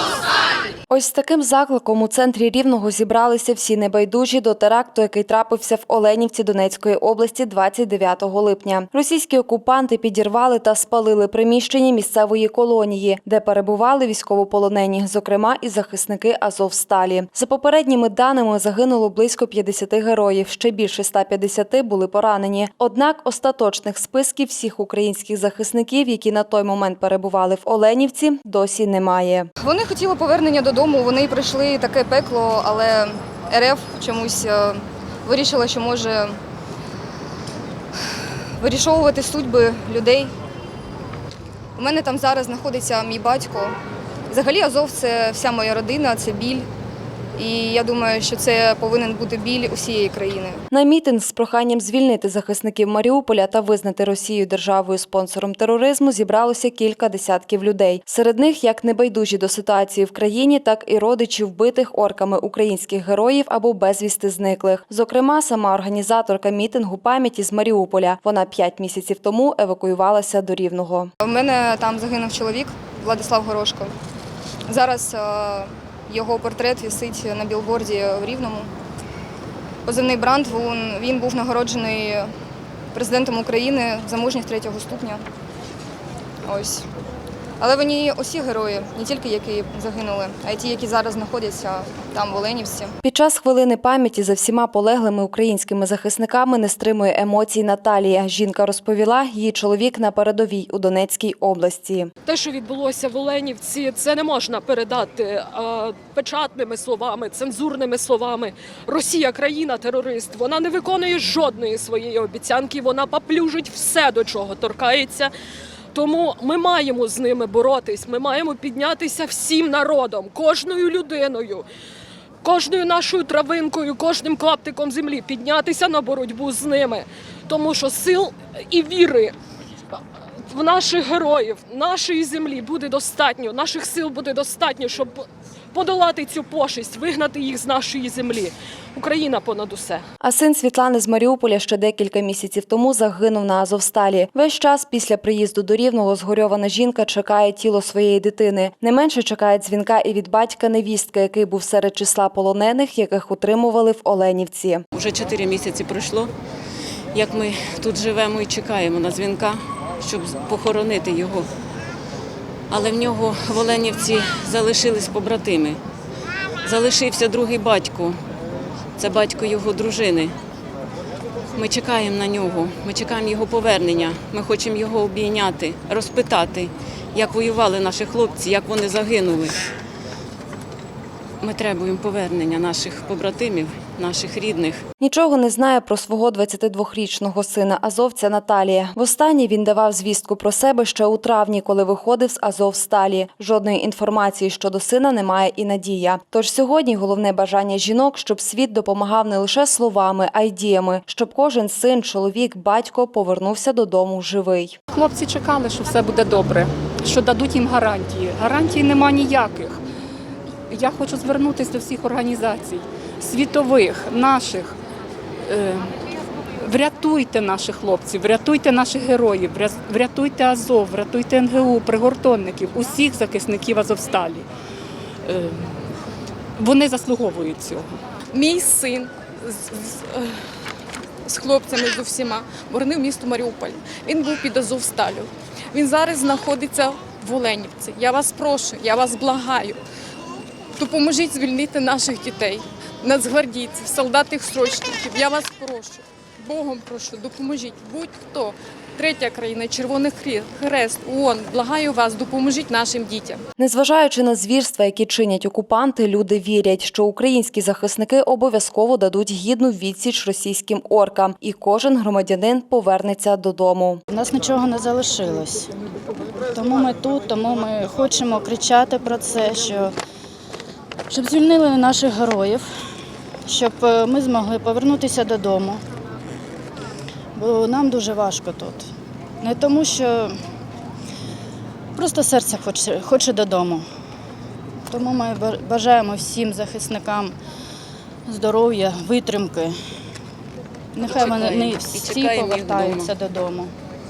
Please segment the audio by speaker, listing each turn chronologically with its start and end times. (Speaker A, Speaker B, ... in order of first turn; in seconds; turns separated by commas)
Speaker A: 0.9-29.5, Speaker B: 29.6-36.4, Speaker B: 38.6-40.3, Speaker B: 41.8-43.8, Speaker B: 44.3-46.7, Speaker B: 47.3-50.6, Speaker A: 50.7-71.1, Speaker B: 71.2-73.9, Speaker B: 74.7-78.7, Speaker B: 79.8-82.3, Speaker B: 82.9-85.2, Speaker B: 86.4-86.8, Speaker B: 87.6-92.9, Speaker A: 93.0-102.1, Speaker C: 102.2-115.3, Speaker C: 115.9-121.7, Speaker C: 122.4-129.3, Speaker C: 130.5-140.0, Speaker A: 140.2-154.8, Speaker D: 154.9-156.3, Speaker D: 157.1-161.5, Speaker D: 162.7-165.8, Speaker D: 166.6-168.2, Speaker D: 169.0-170.3, Speaker D: 171.5-179.6, Speaker D: 181.4-184.8, Speaker A: 185.0-204.8, Speaker E: 204.9-209.8, Speaker E: 210.7-214.8, Speaker E: 215.5-215.9, Speaker E: 216.6-224.5, Speaker E: 225.2-225.7, Speaker E: 226.6-227.9, Speaker F: 228.3-230.4, Speaker F: 231.2-239.8, Speaker F: 240.8-253.4, Speaker A: 253.6-264.0, Speaker G: 264.1-265.7, Speaker G: 266.5-269.9, Speaker G: 271.1-272.8, Speaker G: 273.4-275.8, Speaker G: 277.4-278.9, Speaker G: 279.4-280.4, Speaker G: 281.9-283.9, Speaker G: 284.9-287.4, Speaker G: 288.3-289.8, Speaker G: 290.9-293.7, Speaker D: 291.0-293.1